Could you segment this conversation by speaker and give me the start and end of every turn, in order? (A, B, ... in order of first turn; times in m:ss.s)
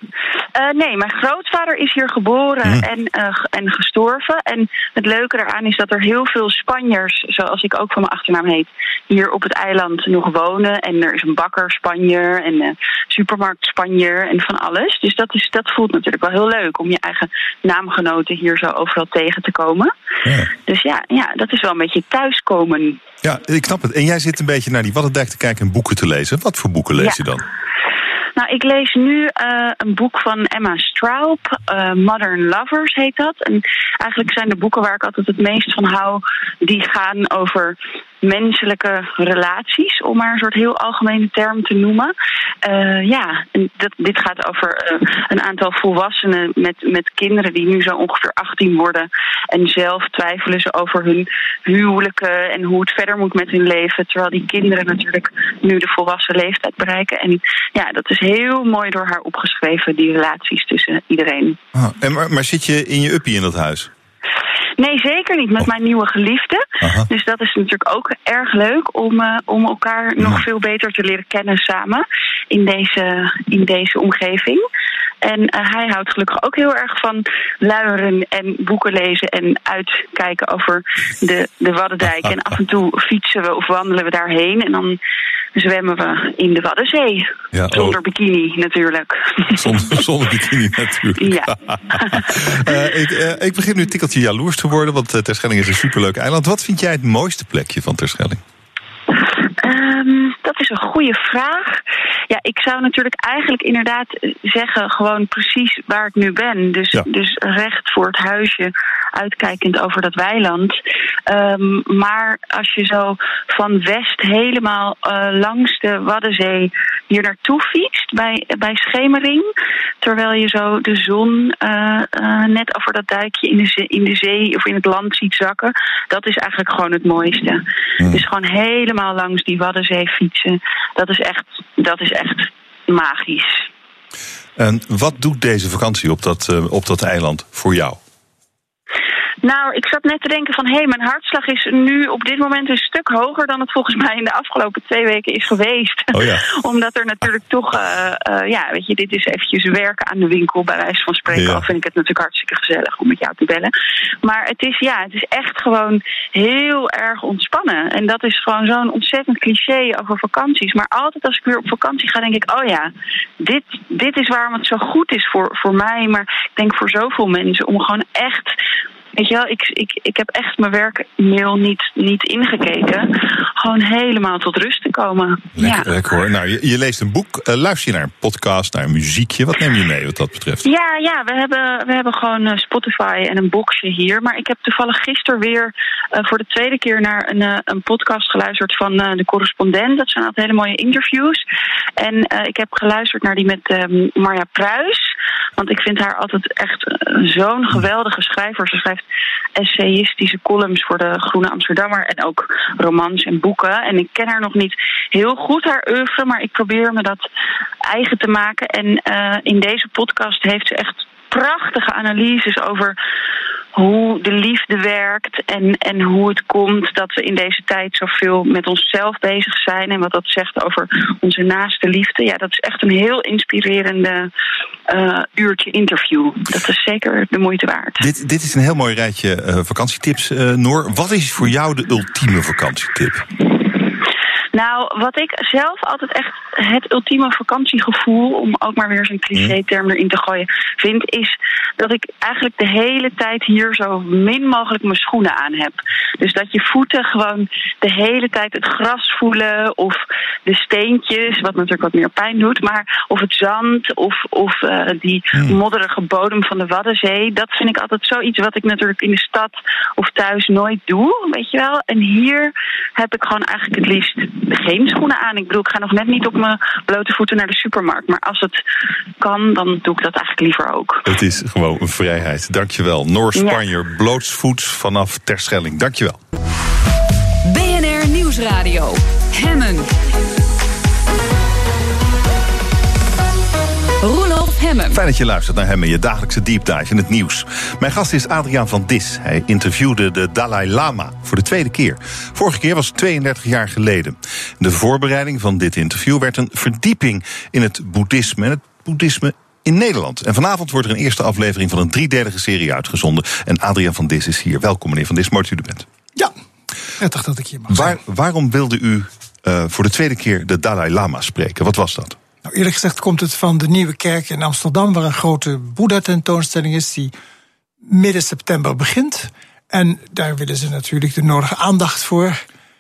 0:00.6-0:19.9 A
0:20.6-0:23.0 A
0:23.2-0:27.4 B
0:28.4-0:42.1 A
0:42.6-1:01.6 A
1:01.8-1:03.9 B
1:04.8-1:14.6 A
1:06.8-1:07.1 B
1:15.2-1:25.0 A
1:25.6-1:29.8 A
1:27.5-1:28.0 B
1:29.5-1:38.4 B
1:31.2-1:32.7 A
1:39.6-1:41.8 A
1:42.3-1:50.7 A
1:51.3-1:59.5 A
2:00.0-2:13.6 A
2:14.6-2:18.0 B
2:19.4-2:33.7 A
2:26.1-2:26.5 B
2:31.3-2:31.7 B
2:34.2-2:42.9 A
2:43.4-2:48.5 A
2:49.2-2:53.1 A
2:53.6-2:55.9 A
2:55.6-3:00.6 B
3:00.6-3:11.4 A
3:12.0-3:15.1 A
3:15.6-3:19.0 A
3:19.6-3:27.2 A
3:27.9-3:32.9 A
3:33.8-3:44.3 A
3:44.9-3:48.0 A
3:48.0-3:53.2 B
3:54.5-4:28.6 A
4:29.2-4:31.0 A
4:31.1-4:36.2 B
4:37.5-4:39.9 C
4:44.0-4:45.0 C
4:44.9-5:05.9 B
5:07.0-5:08.0 D
5:07.7-5:12.2 B
5:12.5-5:17.1 D
5:17.9-5:22.4 D